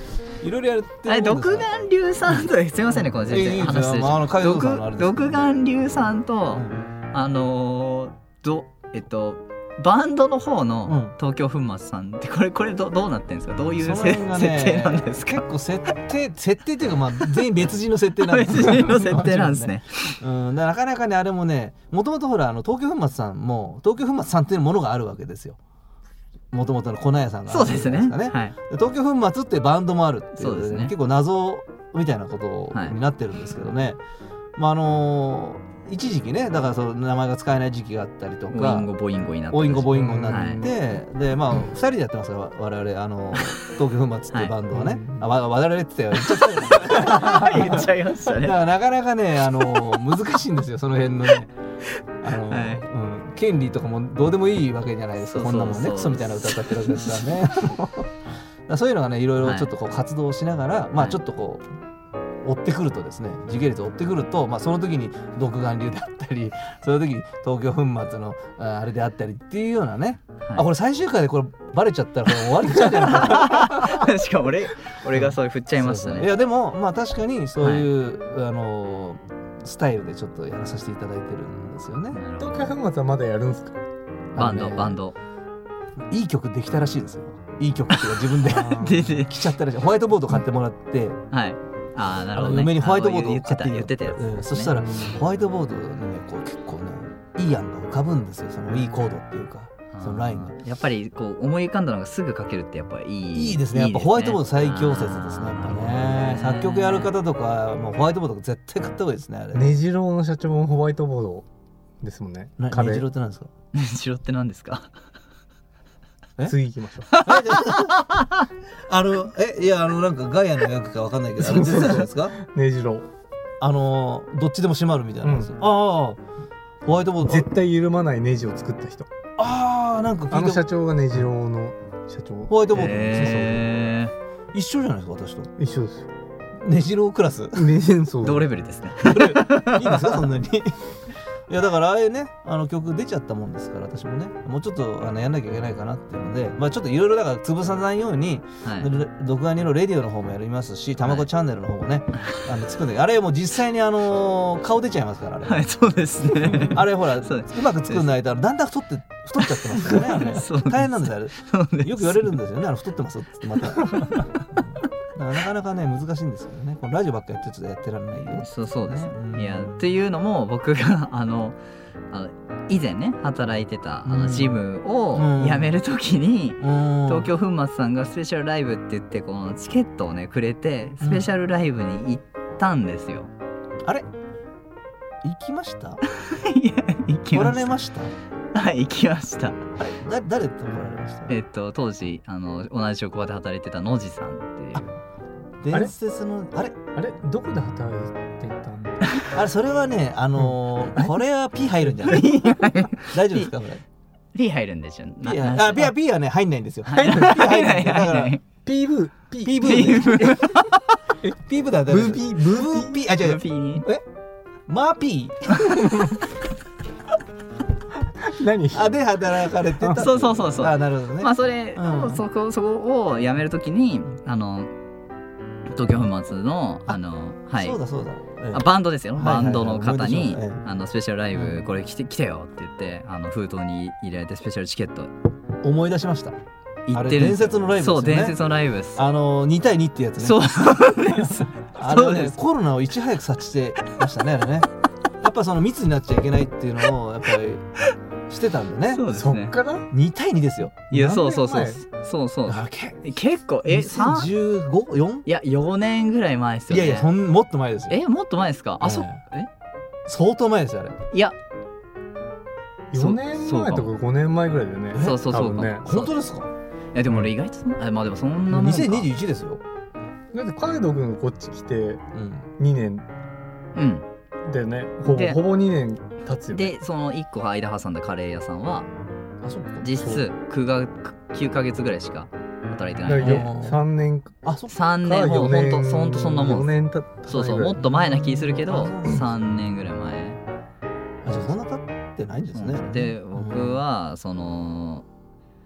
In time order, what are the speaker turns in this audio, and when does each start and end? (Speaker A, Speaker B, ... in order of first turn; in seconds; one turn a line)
Speaker A: 0.4-1.7
Speaker B: 1.1-15.4
Speaker A: 3.2-5.4
Speaker A: 6.5-6.8
Speaker A: 10.9-11.1
Speaker A: 13.8-25.6
Speaker B: 18.2-20.2
Speaker A: 26.5-34.0
Speaker B: 27.5-28.5
Speaker B: 30.4-30.9
Speaker A: 34.5-38.9
Speaker B: 38.5-40.7
Speaker A: 39.5-51.5
Speaker C: 39.9-40.7
Speaker C: 44.7-45.2
Speaker B: 46.1-48.6
Speaker A: 52.2-58.1
Speaker B: 52.5-52.8
Speaker B: 55.2-57.2
Speaker A: 58.7-61.6
Speaker B: 59.4-59.7
Speaker A: 62.4-74.1
Speaker B: 72.8-76.3
Speaker A: 75.1-82.2
Speaker B: 77.6-77.8
Speaker B: 82.1-82.7
Speaker C: 82.4-83.8
Speaker A: 84.3-85.0
Speaker B: 84.3-85.2
Speaker A: 86.1-91.2
Speaker B: 88.0-89.3
Speaker B: 91.3-94.8
Speaker A: 92.3-100.5
Speaker C: 94.8-95.2
Speaker B: 99.9-107.1
Speaker A: 103.3-109.7
Speaker C: 109.5-111.5
Speaker C: 112.0-113.0
Speaker A: 112.6-113.5
Speaker B: 113.7-114.9
Speaker C: 116.4-117.1
Speaker B: 117.1-118.4
Speaker A: 117.1-118.0
Speaker A: 118.9-122.3
Speaker C: 121.4-123.0
Speaker A: 123.6-126.2
Speaker C: 125.2-125.5
Speaker A: 126.8-127.5
Speaker C: 127.2-129.1
Speaker A: 129.4-130.6
Speaker C: 130.3-132.5
Speaker A: 132.5-133.7
Speaker B: 132.7-134.1
Speaker A: 134.5-135.5
Speaker C: 135.6-136.1
Speaker A: 136.6-137.8
Speaker C: 137.5-138.5
Speaker B: 138.2-140.2
Speaker A: 139.0-155.7
Speaker B: 148.6-148.9
Speaker B: 155.4-158.1
Speaker A: 156.4-169.8
Speaker B: 159.4-162.4
Speaker B: 163.6-164.4
Speaker B: 168.4-171.6
Speaker B: 172.1-183.3
Speaker A: 174.1-174.6
Speaker A: 175.1-175.7
Speaker A: 176.6-177.3
Speaker A: 181.0-181.3
Speaker A: 185.2-186.0
Speaker B: 186.1-187.8
Speaker A: 187.3-188.1
Speaker B: 188.5-189.6
Speaker A: 189.8-191.3
Speaker B: 191.3-194.9
Speaker A: 195.6-196.8
Speaker C: 196.9-199.1
Speaker A: 199.3-203.8
Speaker B: 202.0-203.5
Speaker B: 204.3-205.9
Speaker A: 205.2-208.4
Speaker B: 206.9-208.4
Speaker C: 206.9-207.6
Speaker C: 208.6-210.1
Speaker A: 209.4-210.4
Speaker B: 209.6-210.8
Speaker C: 211.2-213.0
Speaker A: 211.4-214.0
Speaker B: 213.2-213.8
Speaker A: 214.7-215.7
Speaker C: 215.8-216.1
Speaker C: 218.2-218.9
Speaker A: 218.7-222.2
Speaker B: 219.9-224.7
Speaker B: 225.7-227.8
Speaker A: 227.6-230.6
Speaker B: 228.5-235.1
Speaker A: 231.3-231.6
Speaker A: 235.6-236.4
Speaker B: 236.9-239.0
Speaker A: 236.9-238.4
Speaker A: 238.9-240.4
Speaker B: 240.2-242.4
Speaker A: 241.8-244.7
Speaker A: 245.2-247.7
Speaker A: 248.3-249.0
Speaker B: 248.9-249.5
Speaker C: 249.1-249.9
Speaker A: 249.9-250.9
Speaker C: 250.9-251.8
Speaker B: 250.9-254.3
Speaker A: 252.5-253.1
Speaker A: 253.7-255.2
Speaker B: 255.2-257.1
Speaker A: 256.7-258.0
Speaker B: 257.9-259.5
Speaker A: 258.8-259.2
Speaker A: 260.1-261.0
Speaker C: 262.9-265.9
Speaker B: 262.9-263.9
Speaker A: 264.9-265.2
Speaker B: 264.9-266.1
Speaker A: 265.8-266.5
Speaker B: 266.9-269.1
Speaker A: 268.5-269.6
Speaker C: 270.3-272.0
Speaker A: 272.1-272.5
Speaker C: 272.6-273.0
Speaker B: 273.7-274.1
Speaker C: 274.4-276.7
Speaker B: 275.1-275.4
Speaker B: 276.5-278.9
Speaker A: 279.4-280.1
Speaker B: 279.8-283.5
Speaker C: 283.0-284.3
Speaker A: 283.1-283.8
Speaker A: 284.4-284.8
Speaker B: 284.7-286.8
Speaker C: 285.0-288.0
Speaker B: 287.3-290.4
Speaker A: 288.5-289.4
Speaker A: 291.2-293.8
Speaker B: 292.5-295.0